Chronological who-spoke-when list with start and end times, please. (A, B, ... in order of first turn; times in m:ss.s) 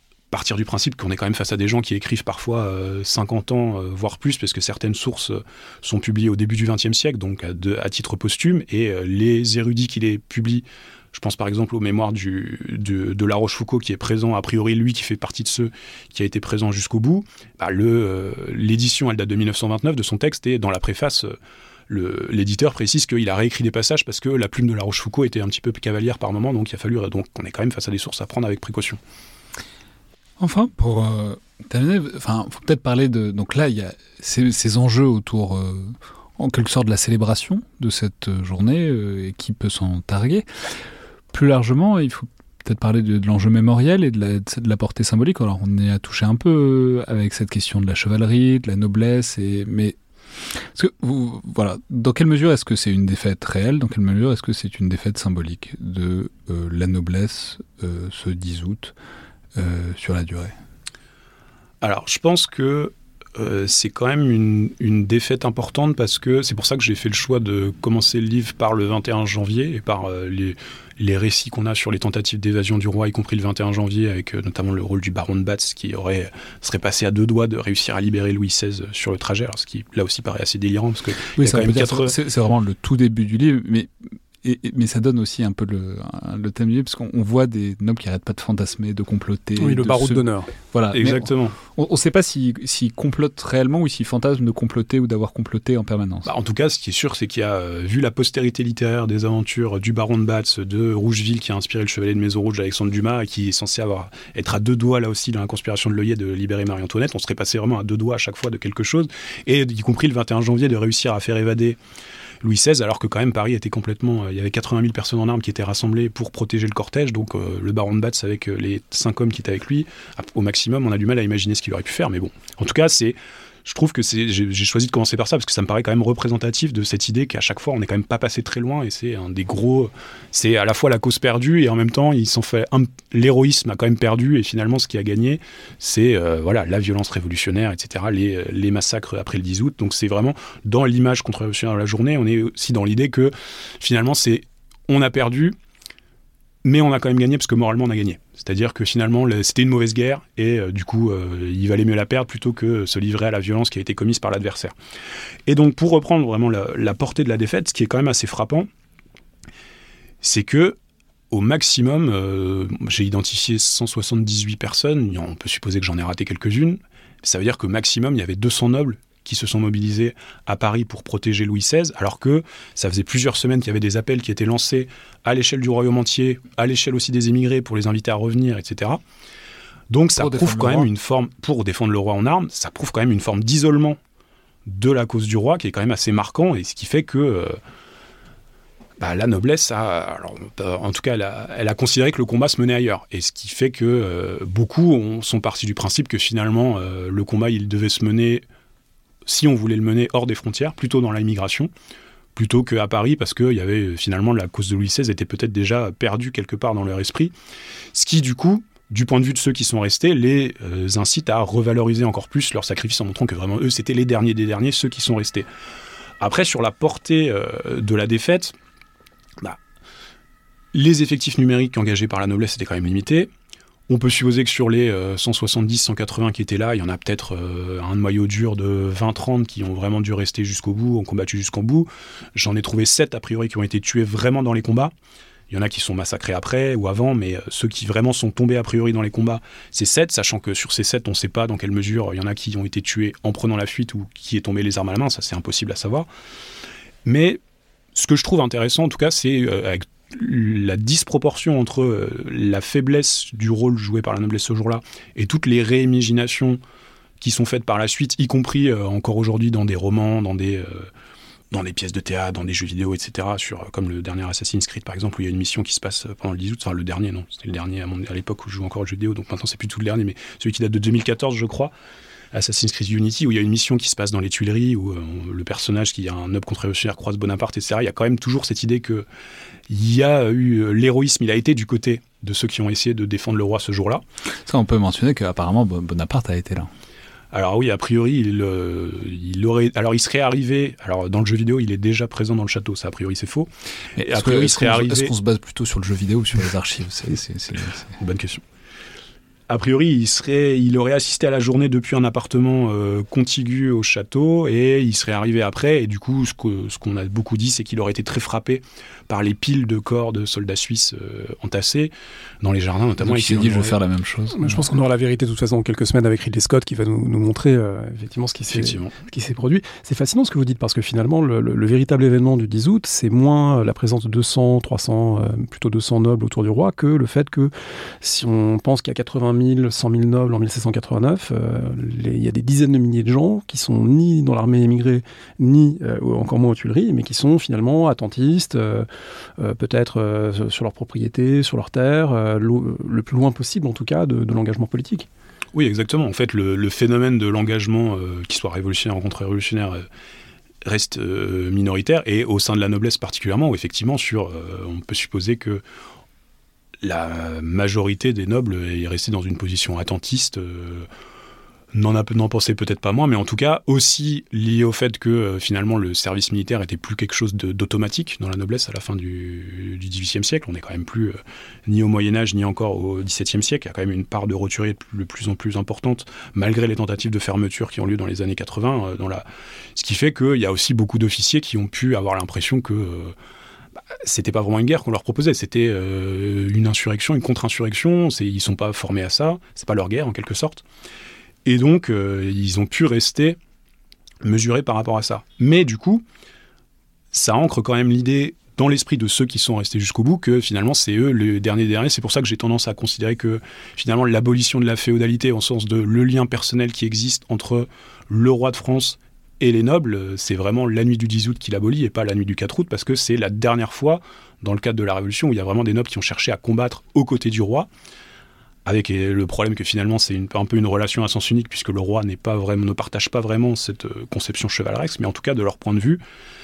0:00.3-0:21.4 A
0:21.9-0:29.0 A
0:30.4-0:40.5 B
0:41.3-0:50.0 B
0:50.6-0:58.9 B
0:59.6-1:00.5 B
1:01.8-1:22.2 A
1:21.4-1:23.9 B
1:24.4-1:36.3 B
1:29.6-1:30.5 C
1:30.9-1:31.6 A
1:36.3-1:51.8 A
1:52.4-2:25.6 A
2:26.6-2:34.7 A
2:35.5-2:38.7 A
2:40.2-2:40.8 A
2:41.3-2:59.0 A
2:59.9-3:04.0 A
3:00.2-3:00.9 B
3:04.7-3:07.6 A
3:09.0-3:18.4 A
3:19.3-3:21.7 A
3:22.4-3:27.3 A
3:27.9-3:35.5 A
3:36.2-3:38.6 A
3:40.7-3:43.3 A
3:43.9-3:54.9 A
3:55.5-4:06.1 A
4:07.0-4:07.4 A
4:08.0-4:16.6 A
4:17.2-4:20.9 A
4:21.5-4:31.7 A
4:32.3-4:39.1 A
4:39.7-4:44.0 A
4:44.5-4:46.7 B
4:47.3-4:55.1 A
4:54.0-4:58.0 B
4:58.0-4:58.4 A
4:59.5-5:13.8 A
5:13.0-5:14.7 B
5:14.4-5:38.9 C
5:18.5-5:18.9 A
5:39.4-5:45.1 C
5:45.5-5:49.8 A
5:50.6-5:55.6 A
5:56.8-6:00.9 A
6:01.7-6:23.2 A
6:24.0-6:30.6 A
6:31.4-6:33.4 A
6:34.2-6:36.0 A
6:37.1-6:57.7 A
6:58.6-7:06.0 A